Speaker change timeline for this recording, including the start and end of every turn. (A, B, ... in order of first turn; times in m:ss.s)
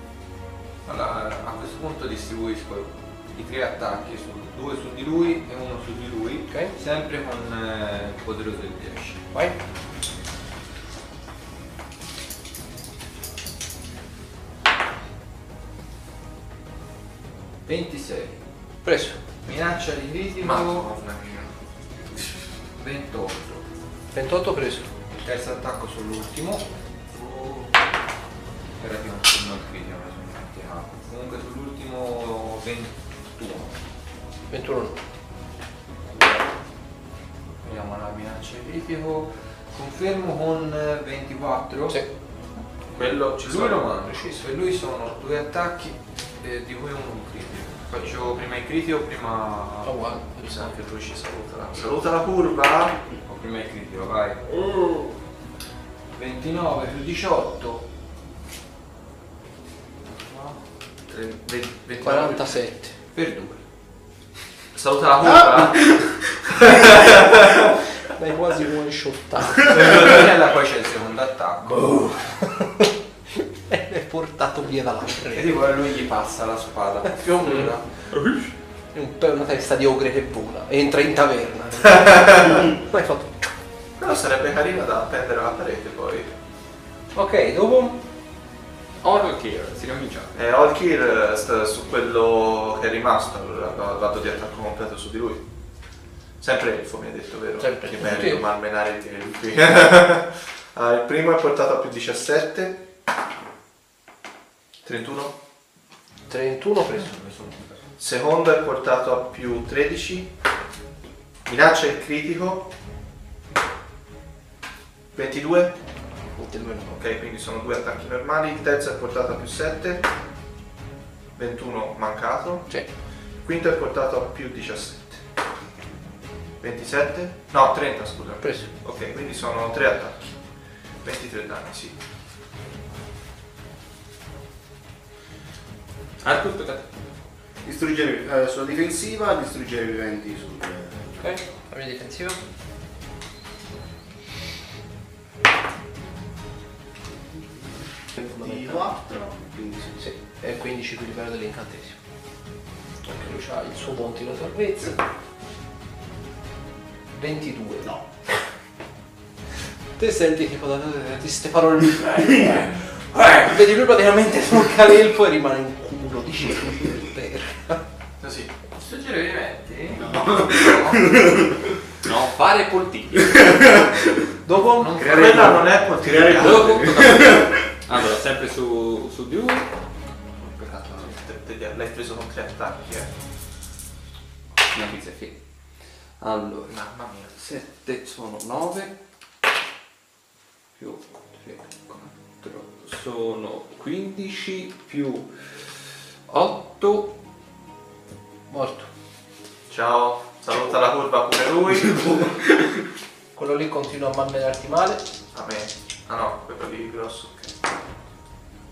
0:00.8-0:09.2 A
0:17.6-0:18.4 A
0:18.8-0:19.2 B
0:19.4-0:20.9 A
0:20.4-0:21.5 C
0:22.8-0:23.6 A
0:24.1-0:24.9 B
0:25.2-0:27.8 A
0:28.8-0:33.7 A
0:34.5-0:35.0 B
0:36.1-0:36.4 A
0:37.6-0:42.0 A
0:42.9-0:44.3 C
0:43.2-0:50.0 A
0:49.8-0:50.7 B
0:50.4-0:53.0 C
0:53.2-0:54.6 A
0:56.1-0:57.8 A
1:00.1-1:00.6 A
1:01.1-1:02.6 C
1:02.0-1:02.9 B
1:03.1-1:03.6 A
1:04.7-1:06.0 D
1:08.1-1:10.0 B
1:09.6-1:12.2 A
1:12.1-1:12.9 B
1:13.4-1:15.6 B
1:15.3-1:17.8 A
1:17.0-1:17.7 B
1:18.1-1:18.5 D
1:18.9-1:23.5 B
1:21.9-1:22.6 C
1:24.0-1:26.3 C
1:27.1-1:28.0 B
1:29.0-1:30.3 D
1:30.3-1:35.4 C
1:36.4-1:42.8 C
1:37.6-1:38.4 B
1:44.8-1:45.3 C
1:46.3-1:47.1 B
1:47.0-1:47.8 A
1:48.0-1:50.3 C
1:51.4-1:52.7 C
1:55.1-1:55.7 C
1:56.4-1:57.0 B
1:57.0-2:00.1 C
2:01.4-2:02.7 C
2:03.4-2:05.2 C
2:06.6-2:10.2 C
2:08.4-2:08.7 B
2:11.0-2:12.0 C
2:16.2-2:16.9 D
2:17.6-2:21.3 E
2:21.2-2:22.4 B
2:27.3-2:30.1 E
2:28.2-2:28.8 B
2:30.0-2:32.0 B
2:33.0-2:35.0 B
2:37.1-2:38.0 B
2:40.0-2:47.8 B
2:48.2-2:48.5 C
2:48.7-2:51.4 A
2:50.0-2:51.6 E
2:52.0-2:53.9 D
2:53.5-2:53.9 E
2:54.4-2:55.1 B
2:54.8-2:55.5 A
2:55.0-2:57.6 E
2:55.0-2:56.8 C
2:56.2-2:59.7 D
3:00.7-3:03.1 C
3:04.7-3:05.4 D
3:06.2-3:06.8 D
3:06.7-3:07.3 C
3:07.3-3:08.9 D
3:10.8-3:15.3 D
3:16.3-3:17.1 D
3:18.5-3:18.9 B
3:19.7-3:22.5 C
3:23.3-3:25.0 B
3:25.3-3:27.5 C